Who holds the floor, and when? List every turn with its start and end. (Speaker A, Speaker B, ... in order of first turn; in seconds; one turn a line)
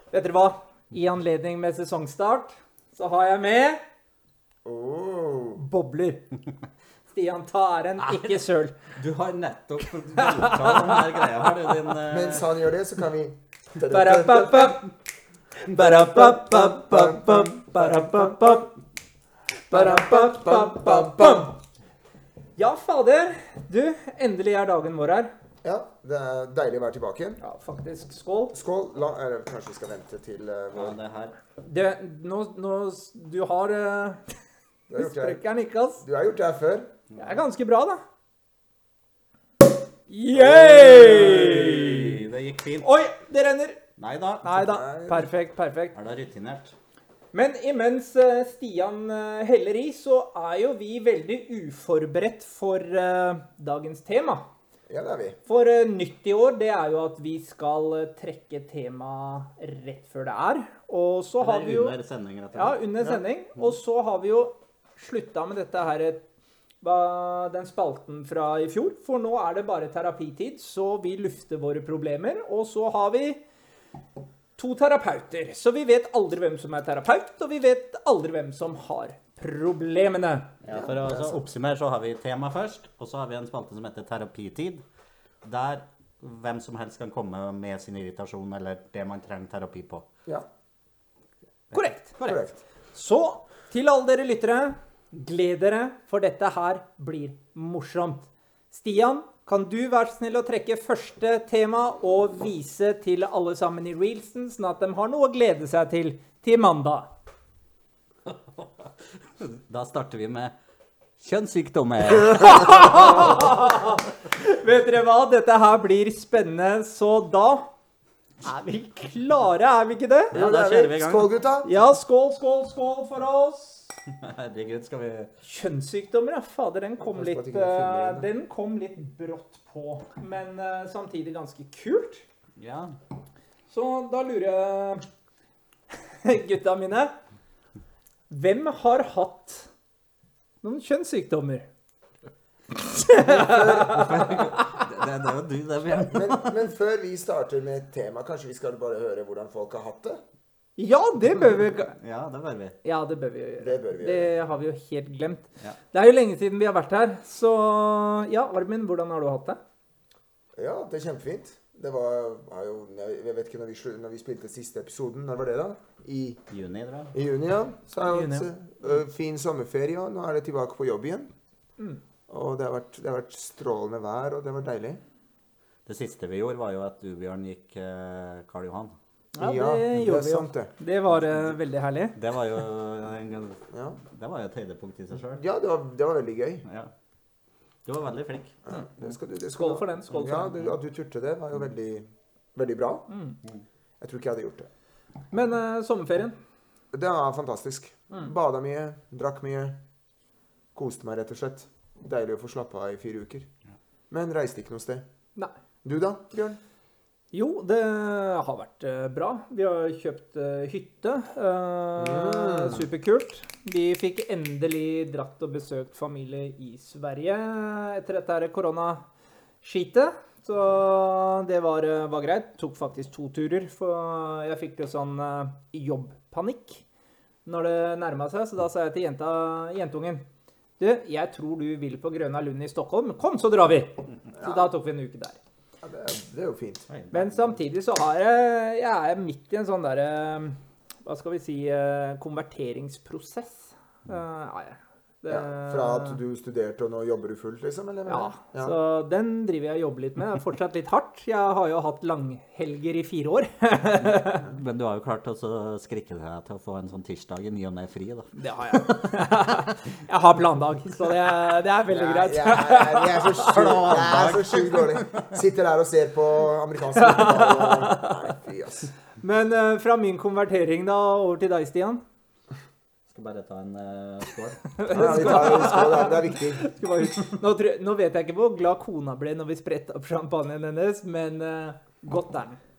Speaker A: 0.1-3.8
Speaker B: 4.6-5.6
Speaker A: 5.5-6.3
Speaker A: 7.1-8.8
Speaker C: 8.9-12.5
Speaker A: 10.2-11.5
Speaker B: 12.1-14.8
Speaker A: 13.9-14.9
Speaker A: 15.6-18.7
Speaker B: 15.7-18.3
Speaker A: 19.7-21.6
Speaker B: 19.7-21.5
Speaker A: 22.6-25.3
Speaker B: 25.6-27.4
Speaker A: 27.4-28.6
Speaker B: 28.5-31.0
Speaker C: 30.7-31.4
Speaker A: 31.6-34.2
Speaker B: 34.9-35.4
Speaker A: 35.0-36.0
Speaker B: 36.0-36.9
Speaker A: 37.1-38.0
Speaker A: 40.1-42.1
Speaker B: 40.3-42.1
Speaker C: 41.3-42.9
Speaker A: 42.8-43.8
Speaker C: 44.0-44.6
Speaker A: 44.4-46.0
Speaker B: 44.5-45.3
Speaker C: 45.9-46.7
Speaker A: 47.3-54.4
Speaker B: 54.9-55.4
Speaker A: 55.5-61.9
Speaker C: 61.4-62.9
Speaker A: 62.5-66.2
Speaker A: 66.8-73.4
Speaker A: 74.5-80.5
Speaker C: 80.6-84.8
Speaker B: 80.7-81.4
Speaker C: 85.4-90.1
Speaker C: 91.7-92.4
Speaker A: 91.7-92.1
Speaker B: 92.2-92.5
Speaker A: 92.9-107.1
Speaker C: 108.3-110.5
Speaker C: 111.2-113.4
Speaker A: 112.4-117.7
Speaker A: 118.4-120.3
Speaker C: 120.3-121.3
Speaker B: 120.3-121.7
Speaker A: 121.6-123.9
Speaker C: 124.1-125.3
Speaker A: 125.4-132.2
Speaker B: 127.0-128.3
Speaker C: 132.6-132.9
Speaker A: 133.7-135.0
Speaker A: 136.2-137.2
Speaker A: 138.3-139.7
Speaker A: 140.6-141.7
Speaker A: 142.8-144.8
Speaker B: 143.4-144.0
Speaker C: 143.5-146.5
Speaker B: 146.1-150.2
Speaker A: 150.8-151.9
Speaker C: 151.9-152.8
Speaker A: 152.8-159.6
Speaker B: 153.6-154.3
Speaker B: 160.6-166.4
Speaker C: 166.5-167.1
Speaker B: 167.1-171.3
Speaker A: 168.0-168.5
Speaker B: 172.3-175.0
Speaker C: 175.8-178.9
Speaker A: 179.3-182.2
Speaker B: 179.4-180.7
Speaker C: 182.2-185.4
Speaker B: 183.7-184.0
Speaker B: 185.4-186.6
Speaker C: 186.7-186.9
Speaker C: 187.8-188.6
Speaker B: 188.7-193.1
Speaker A: 189.5-190.6
Speaker A: 193.1-193.4
Speaker B: 194.0-194.7
Speaker A: 195.3-196.3
Speaker B: 196.9-199.8
Speaker B: 200.7-203.5
Speaker B: 204.1-205.0
Speaker B: 205.8-206.6
Speaker A: 207.3-219.0
Speaker B: 212.0-212.8
Speaker A: 219.6-226.8
Speaker A: 227.4-230.2
Speaker A: 230.8-235.4
Speaker B: 234.4-234.7
Speaker B: 235.8-236.9
Speaker C: 236.9-237.5
Speaker A: 237.1-246.2
Speaker B: 245.3-248.7
Speaker A: 248.1-254.4
Speaker C: 254.2-259.0
Speaker A: 258.4-263.8
Speaker B: 261.9-268.9
Speaker C: 263.5-265.3
Speaker A: 266.9-268.2
Speaker A: 269.2-272.0
Speaker C: 273.1-275.5
Speaker A: 274.8-282.6
Speaker B: 274.9-276.6